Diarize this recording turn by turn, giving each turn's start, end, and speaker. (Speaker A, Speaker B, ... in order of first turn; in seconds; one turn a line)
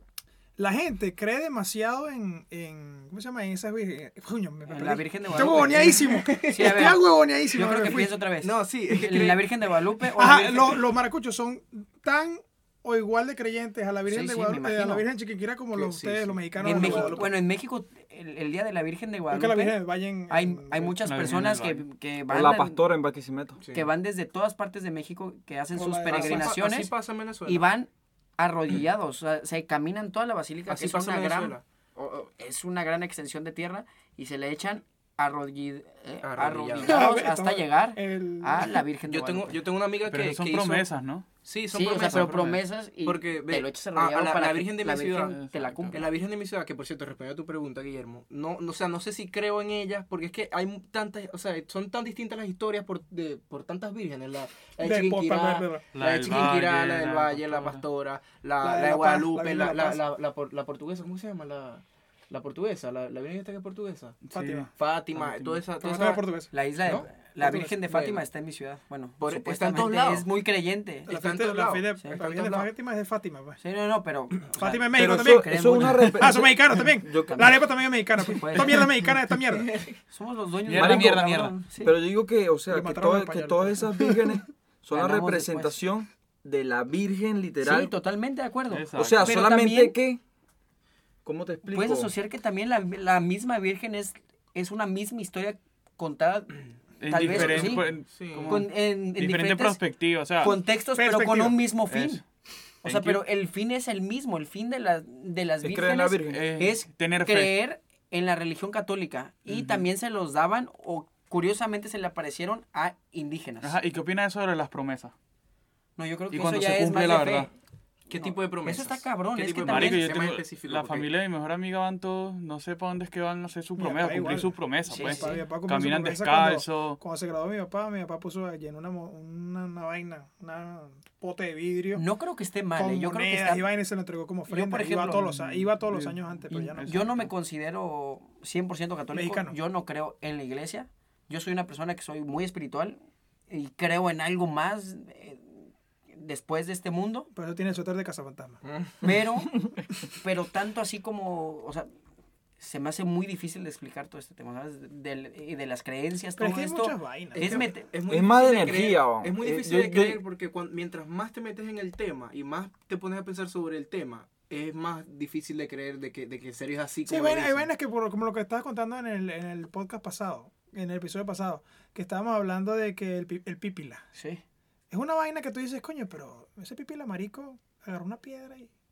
Speaker A: 0.6-8.1
Speaker B: 4.7-10.8
Speaker C: 5.4-6.8
Speaker C: 8.4-9.5
Speaker A: 10.2-17.2
Speaker B: 14.1-15.0
Speaker C: 15.7-17.3
Speaker B: 16.6-22.8
Speaker A: 19.3-21.1
Speaker D: 21.0-21.8
Speaker E: 22.3-23.6
Speaker C: 23.6-23.9
Speaker B: 23.7-26.9
Speaker A: 25.7-26.5
Speaker C: 26.1-27.7
Speaker B: 27.4-39.6
Speaker C: 30.7-31.6
Speaker C: 36.2-37.1
Speaker A: 36.8-38.8
Speaker C: 39.1-40.9
Speaker D: 40.0-41.2
Speaker C: 41.4-45.4
Speaker B: 41.7-46.1
Speaker D: 45.3-46.0
Speaker C: 45.9-64.2
Speaker A: 54.8-55.8
Speaker D: 55.9-57.8
Speaker A: 58.6-60.0
Speaker D: 64.2-65.6
Speaker A: 64.3-64.7
Speaker C: 64.8-66.2
Speaker A: 65.8-66.5
Speaker B: 66.5-71.1
Speaker C: 66.8-68.2
Speaker A: 67.4-67.7
Speaker C: 69.2-70.3
Speaker A: 71.1-73.6
Speaker C: 71.1-72.7
Speaker B: 73.6-76.4
Speaker A: 74.6-75.5
Speaker E: 75.0-77.5
Speaker A: 76.1-79.7
Speaker B: 77.2-77.6
Speaker B: 78.2-78.9
Speaker C: 79.5-80.0
Speaker B: 80.1-82.0
Speaker D: 80.7-81.5
Speaker E: 80.7-81.2
Speaker E: 81.8-87.9
Speaker A: 82.7-84.4
Speaker B: 84.9-85.8
Speaker B: 87.6-90.0
Speaker D: 88.7-89.3
Speaker E: 88.9-90.2
Speaker E: 91.2-92.1
Speaker B: 91.7-97.9
Speaker D: 97.0-100.6
Speaker C: 97.2-98.6
Speaker B: 98.5-99.8
Speaker B: 100.4-102.2
Speaker A: 101.0-101.6
Speaker D: 101.9-102.2
Speaker D: 102.8-103.2
Speaker B: 102.8-113.8
Speaker E: 105.6-106.4
Speaker D: 106.3-107.5
Speaker D: 109.5-109.9
Speaker D: 113.6-115.1
Speaker B: 116.0-117.5
Speaker D: 116.3-117.5
Speaker C: 118.1-121.1
Speaker B: 118.1-120.1
Speaker D: 119.6-127.0
Speaker A: 123.8-132.0
Speaker B: 124.9-125.4
Speaker B: 131.9-133.6
Speaker A: 132.8-136.9
Speaker B: 134.5-135.3
Speaker D: 135.2-137.3
Speaker B: 136.5-143.0
Speaker A: 139.1-139.6
Speaker B: 143.5-147.3
Speaker A: 147.3-148.6
Speaker C: 148.6-148.9
Speaker B: 149.0-149.6
Speaker B: 150.1-151.9
Speaker B: 152.6-157.9
Speaker A: 156.4-157.7
Speaker C: 157.3-167.7
Speaker E: 158.1-160.2
Speaker A: 167.1-174.0
Speaker B: 174.1-174.4
Speaker A: 174.9-178.7